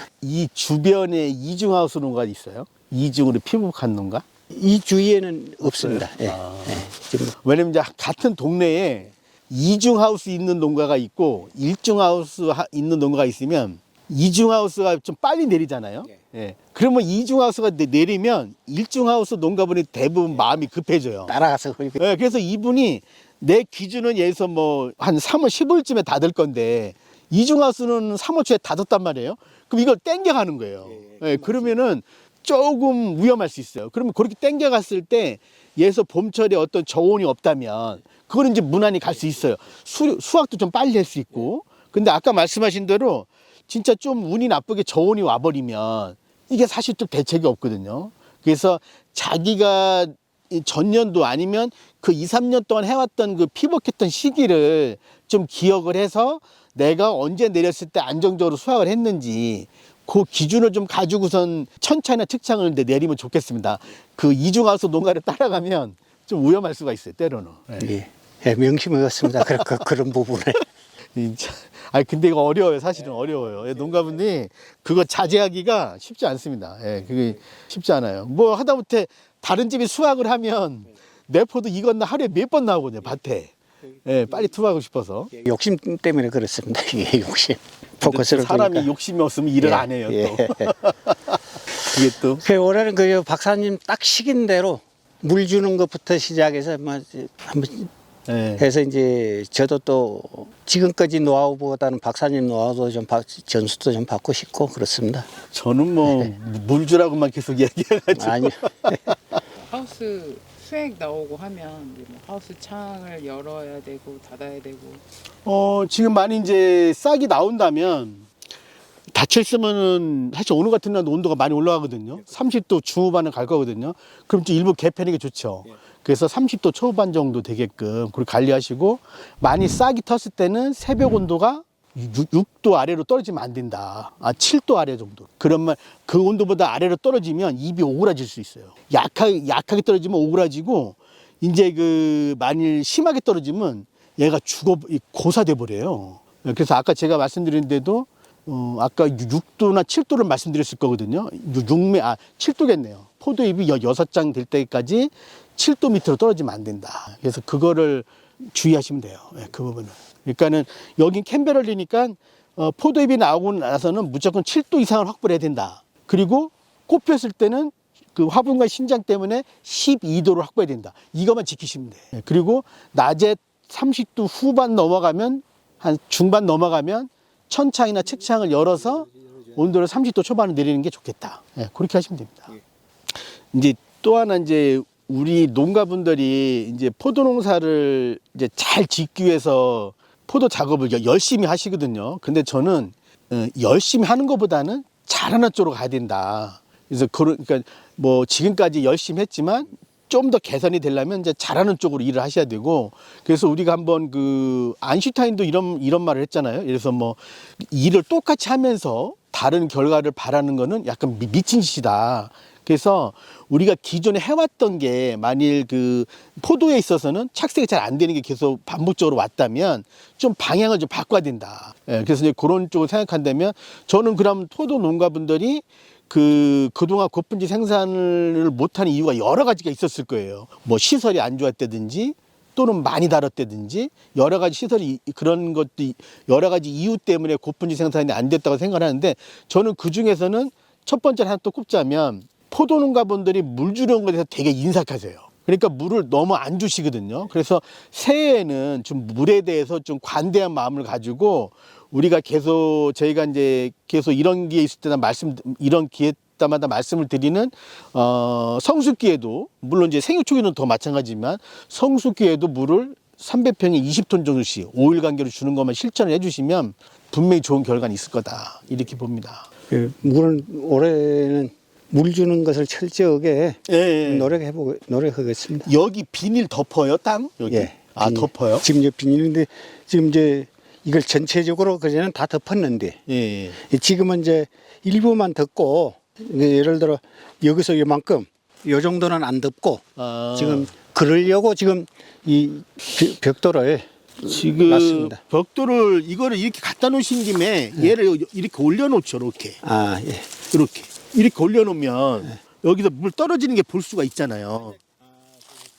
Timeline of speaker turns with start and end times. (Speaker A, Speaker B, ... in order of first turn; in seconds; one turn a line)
Speaker A: 0.2-4.2
Speaker B: 4.5-7.3
Speaker A: 5.6-6.9
Speaker A: 7.4-21.3
Speaker B: 21.3-22.0
Speaker A: 22.0-67.9
Speaker B: 67.8-70.6
Speaker A: 69.3-69.6
Speaker A: 71.2-85.3
Speaker B: 85.4-88.9
Speaker A: 88.0-92.5
Speaker B: 89.6-90.8
Speaker B: 92.4-97.9
Speaker A: 98.3-98.6
Speaker B: 98.6-105.3
Speaker A: 105.5-109.4
Speaker B: 108.2-109.0
Speaker C: 109.6-115.0
Speaker A: 115.5-118.3
Speaker A: 119.1-182.6
Speaker A: 183.5-269.5
Speaker B: 269.7-275.7
Speaker A: 273.7-274.4
Speaker A: 275.6-278.6
Speaker B: 277.5-283.0
Speaker A: 283.1-283.6
Speaker B: 283.6-295.2
Speaker A: 290.0-290.7
Speaker A: 294.2-299.6
Speaker B: 299.6-300.3
Speaker A: 300.5-304.8